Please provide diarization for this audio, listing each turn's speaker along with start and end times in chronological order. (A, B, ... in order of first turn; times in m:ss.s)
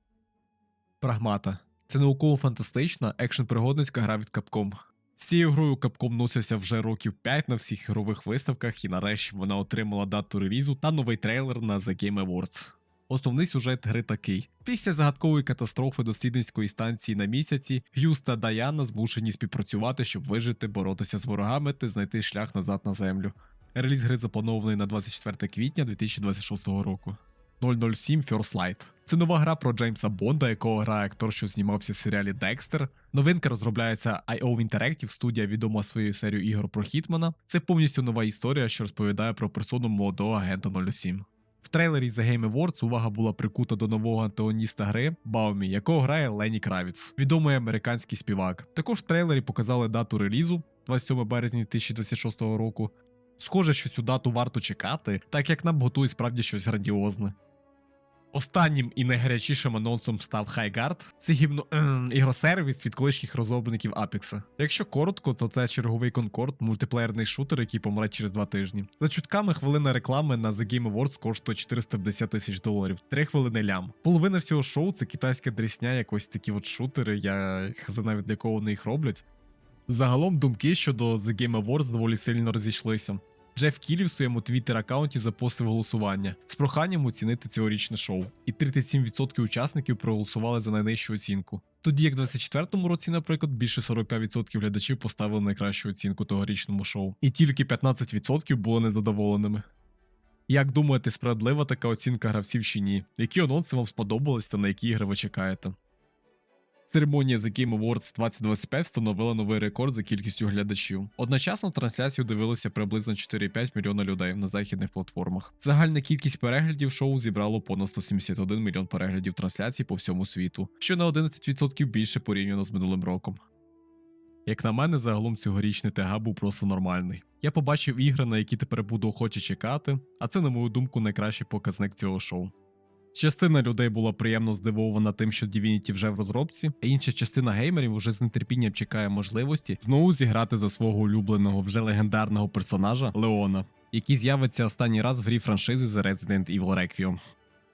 0:01.0-0:57.4 A
0:58.3-1:19.2 A
1:19.9-1:39.6 A
1:40.5-1:45.8 A
1:46.9-2:03.4 A
2:04.5-2:12.5 A
2:13.1-2:27.2 A